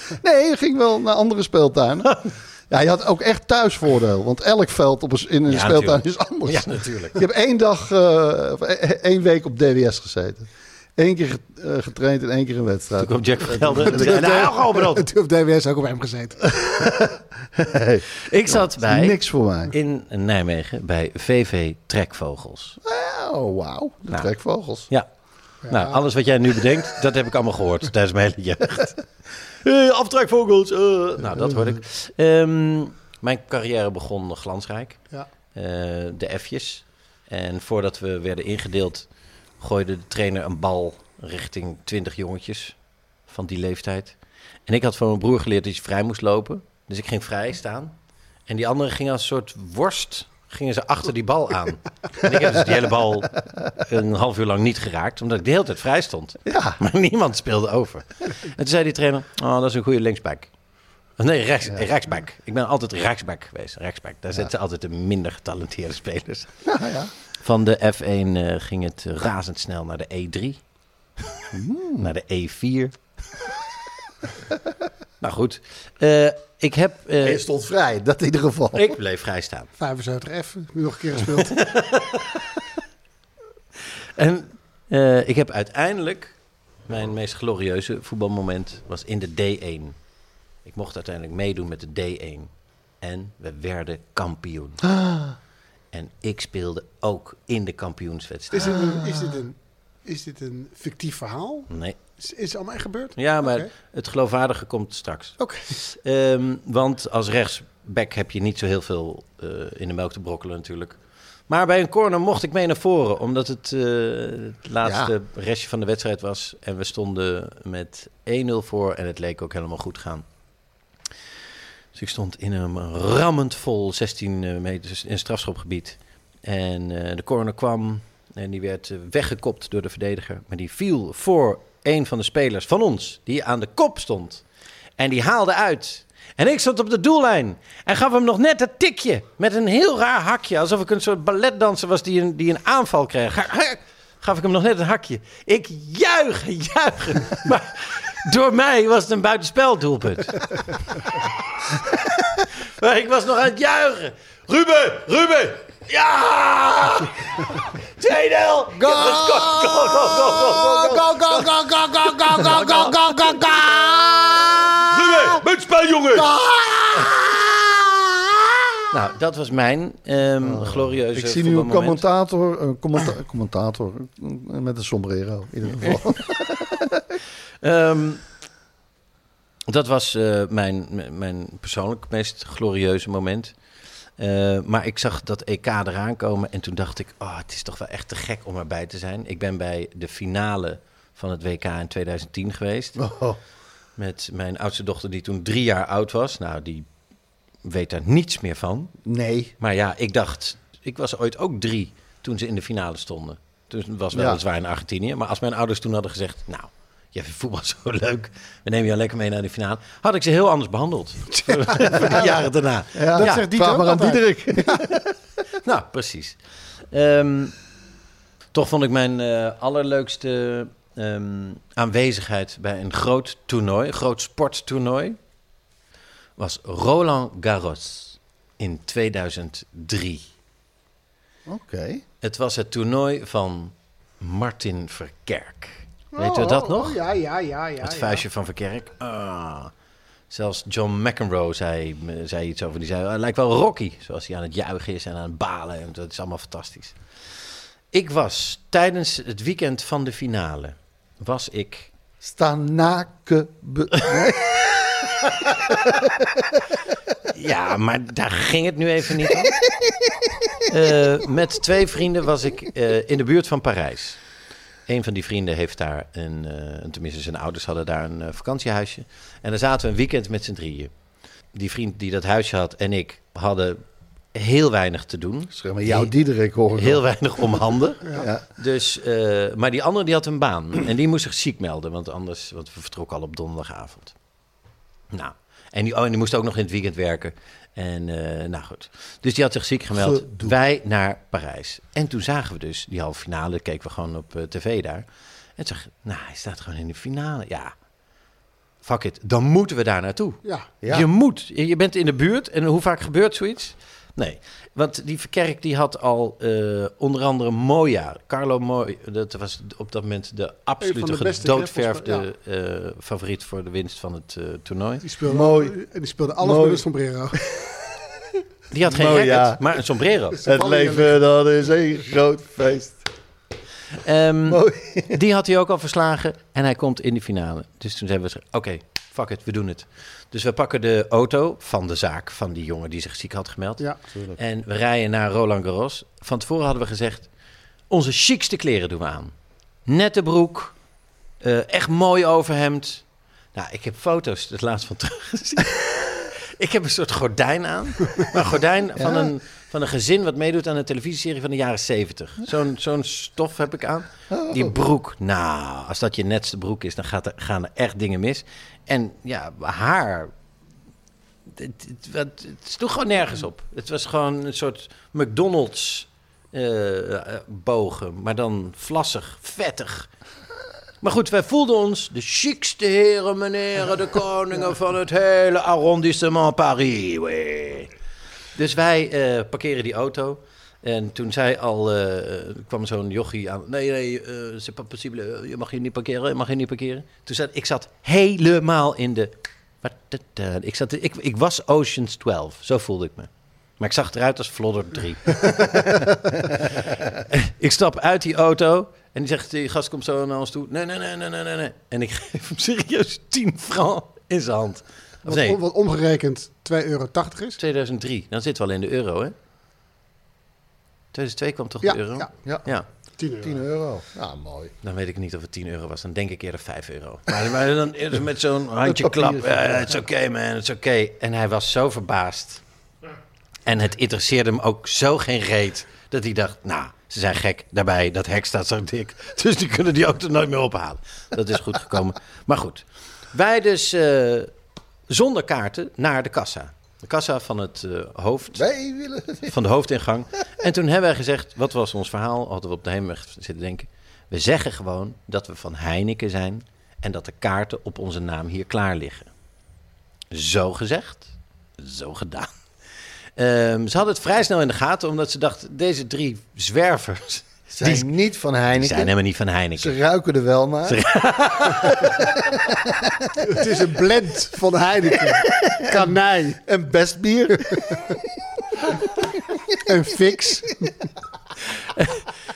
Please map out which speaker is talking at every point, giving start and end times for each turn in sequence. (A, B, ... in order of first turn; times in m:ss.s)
0:00.2-0:14.5 A
0:05.5-0:07.2 B
0:13.0-0:15.1 B
0:13.8-0:16.6 C
0:16.6-0:19.7 A
0:18.3-0:19.2 B
0:19.7-0:22.8 B
0:22.8-0:24.9 A
0:25.7-0:26.0 C
0:25.7-0:35.0 B
0:35.6-0:39.1 B
0:39.6-0:42.8 B
0:43.3-0:44.2 B
0:44.7-0:47.9 B
0:48.5-1:00.5 B
0:56.5-0:56.8 A
1:01.2-1:06.6 B
1:06.7-1:07.1 A
1:07.4-1:10.6 B
1:11.5-1:12.1 A
1:12.0-1:13.0 B
1:15.2-1:17.4 B
1:17.2-1:19.0 A
1:18.7-1:19.7 B
1:19.8-1:21.5 C
1:21.4-1:22.4 B
1:24.2-1:26.4 B
1:26.9-1:30.0 B
1:30.6-1:32.5 B
1:33.0-1:34.8 B
1:34.9-1:35.4 A
1:35.9-1:38.8 B
1:38.5-1:43.7 C
1:38.7-1:39.4 A
1:41.7-1:42.0 B
1:43.2-1:51.0 B
1:45.4-1:45.7 C
1:51.5-2:00.2 B
1:54.8-1:55.1 A
2:01.9-2:14.4 B
2:15.0-2:30.5 B
2:31.8-2:41.5 B
2:38.8-2:39.8 C
2:40.3-2:44.9 C
2:42.2-2:43.6 B
2:44.8-2:46.3 B
2:46.2-2:47.2 C
2:48.9-2:52.0 B
2:50.4-2:57.1 A
2:57.6-2:58.3 B
2:59.7-3:03.5 B
3:04.2-3:13.0 B
3:13.0-3:13.4 A
3:14.0-3:16.9 B
3:17.6-3:18.9 B
3:19.0-3:19.5 A
3:19.6-3:33.5 B
3:24.1-3:24.4 A
3:31.4-3:32.3 C
3:32.9-3:35.1 A
3:33.1-3:34.8 C
3:35.6-3:36.4 B
3:36.9-3:37.5 B
3:38.5-3:45.2 B
3:46.4-3:50.3 B
3:51.5-3:52.0 A
3:52.2-3:57.0 B
3:56.1-3:58.2 C
3:57.8-3:59.7 B
4:00.3-4:07.0 B
4:07.9-4:11.9 B
4:12.2-4:16.1 A
4:17.3-4:19.6 B
4:20.7-4:24.2 B
4:24.9-4:30.9 B
4:31.5-4:33.8 B
4:34.3-4:36.1 B
4:35.5-4:37.0 A
4:36.7-4:44.1 B
4:38.1-4:38.4 A
4:45.1-4:55.0 B
4:49.9-4:50.6 A
4:55.6-4:57.7 B
4:58.8-5:15.0 B
5:00.8-5:01.1 A
5:10.8-5:12.2 C
5:15.0-5:17.5 C
5:15.2-5:15.8 A
5:16.4-5:16.8 A
5:18.7-5:20.4 B
5:18.8-5:19.7 A
5:20.3-5:21.2 C
5:20.4-5:23.0 A
5:24.0-5:37.3 B
5:24.5-5:25.2 A
5:34.1-5:34.4 A
5:37.9-5:39.3 B
5:39.9-5:40.7 B
5:41.4-5:43.0 B
5:43.6-6:00.3 B
5:49.0-5:49.3 A
5:54.3-5:54.8 A
6:01.5-6:10.1 B
6:11.0-6:17.9 B
6:18.6-6:33.3 B
6:33.8-6:36.0 B
6:36.6-6:45.6 B
6:45.3-6:47.6 C
6:47.6-6:49.3 B
6:51.1-6:52.9 B
6:51.8-6:52.3 C
6:53.2-6:53.6 C
6:53.4-6:54.7 A
6:54.8-7:02.6 B
6:58.8-7:00.0 A
7:03.7-7:14.5 B
7:15.1-7:18.6 B
7:18.6-7:19.5 A
7:19.5-7:29.3 B
7:30.3-7:32.5 B
7:33.4-7:38.1 B
7:37.7-7:39.1 A
7:38.7-7:40.0 B
7:39.8-7:41.0 A
7:40.9-7:42.1 B
7:42.1-7:43.5 A
7:43.4-7:46.6 C
7:45.6-7:48.1 A
7:49.8-7:50.9 C
7:51.8-7:52.3 B